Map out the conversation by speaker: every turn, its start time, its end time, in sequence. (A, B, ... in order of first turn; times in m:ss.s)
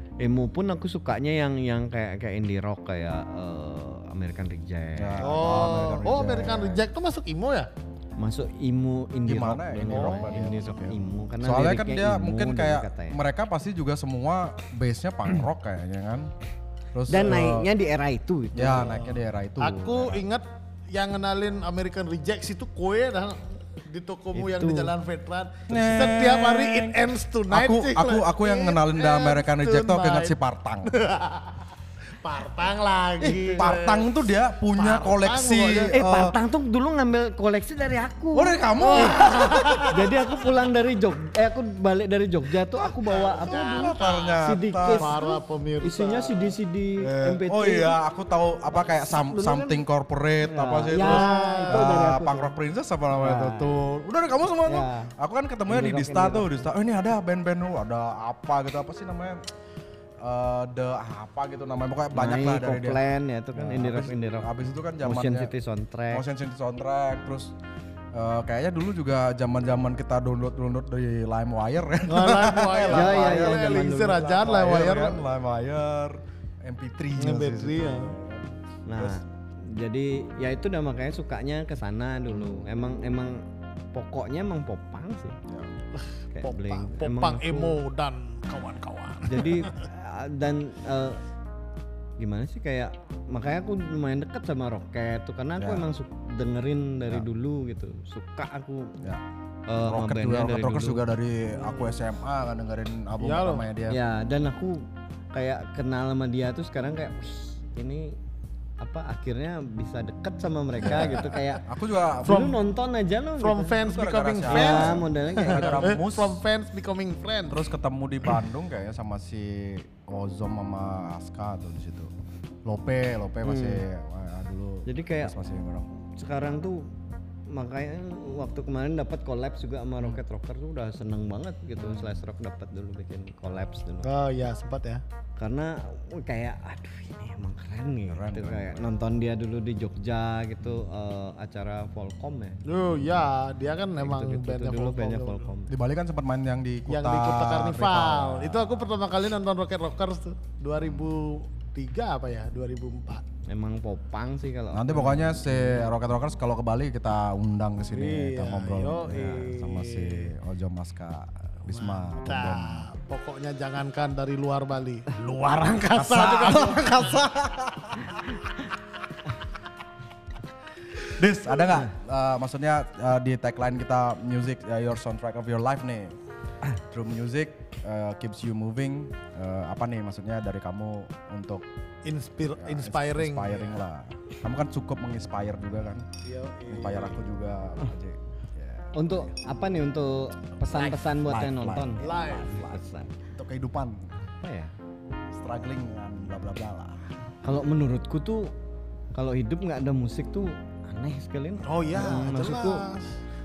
0:00.2-0:05.9 A
0:05.0-0:06.8 B
0:05.2-0:07.7 C
0:08.2-0:13.2 A
0:09.3-0:16.3 B
0:09.9-0:10.4 C
0:16.9-0:17.7 B
0:17.1-0:19.0 A
0:18.6-0:20.2 B
0:19.6-0:31.7 C
0:24.3-0:24.9 A
0:25.7-0:27.0 B
0:27.5-0:30.9 B
0:32.2-0:34.2 C
0:33.2-0:33.7 A
0:33.6-0:36.4 B
0:34.8-0:36.0 C
0:35.9-0:39.3 A
0:38.3-0:40.0 B
0:38.8-0:40.0 C
0:39.8-0:48.0 A
0:43.0-0:44.3 C
0:43.5-0:45.2 B
0:44.9-0:46.5 C
0:47.0-0:59.4 B
0:48.7-0:49.8 A
0:50.4-0:52.5 A
0:50.9-0:51.9 C
0:53.1-0:53.8 A
0:54.7-0:55.1 A
0:55.7-0:56.6 A
1:00.2-1:05.5 B
1:02.1-1:06.2 A
1:06.1-1:07.5 B
1:08.1-1:13.7 B
1:12.1-1:15.2 C
1:12.9-1:14.5 A
1:14.4-1:18.5 B
1:17.2-1:18.2 C
1:18.9-1:25.4 A
1:22.3-1:22.6 B
1:25.5-1:25.7 B
1:26.0-1:29.8 C
1:26.3-1:27.8 A
1:29.3-1:31.2 A
1:32.2-1:39.0 A
1:35.6-1:35.9 B
1:39.7-1:41.0 A
1:39.8-1:44.0 B
1:41.6-1:42.0 C
1:43.2-1:43.7 C
1:43.9-1:48.2 A
1:48.8-1:51.6 A
1:50.8-1:52.5 B
1:52.2-1:53.8 A
1:52.2-1:52.6 C
1:53.4-1:57.6 C
1:53.8-1:56.4 B
1:54.5-1:55.9 A
1:57.5-2:02.1 B
2:02.6-2:05.9 B
2:03.4-2:03.8 A
2:04.9-2:05.3 A
2:06.2-2:06.9 A
2:07.5-2:14.1 A
2:11.8-2:12.1 B
2:14.0-2:15.0 C
2:15.4-2:22.6 A
2:18.1-2:18.9 B
2:22.6-2:25.5 C
2:24.0-2:25.7 A
2:25.7-2:28.9 B
2:26.9-2:33.2 C
2:30.8-2:31.1 B
2:33.5-2:35.9 A
2:34.7-2:42.9 B
2:37.9-2:40.3 C
2:39.1-2:39.4 A
2:41.7-2:47.2 C
2:45.9-2:48.4 B
2:51.1-2:56.2 B
2:56.7-3:01.6 B
3:02.0-3:03.8 C
3:02.6-3:06.0 B
3:06.2-3:07.2 C
3:06.7-3:09.4 B
3:08.9-3:13.1 A
3:10.7-3:12.2 B
3:12.0-3:12.6 C
3:13.3-3:14.0 B
3:14.3-3:14.7 A
3:15.3-3:17.1 B
3:17.4-3:18.5 A
3:19.1-3:22.8 A
3:21.6-3:23.1 C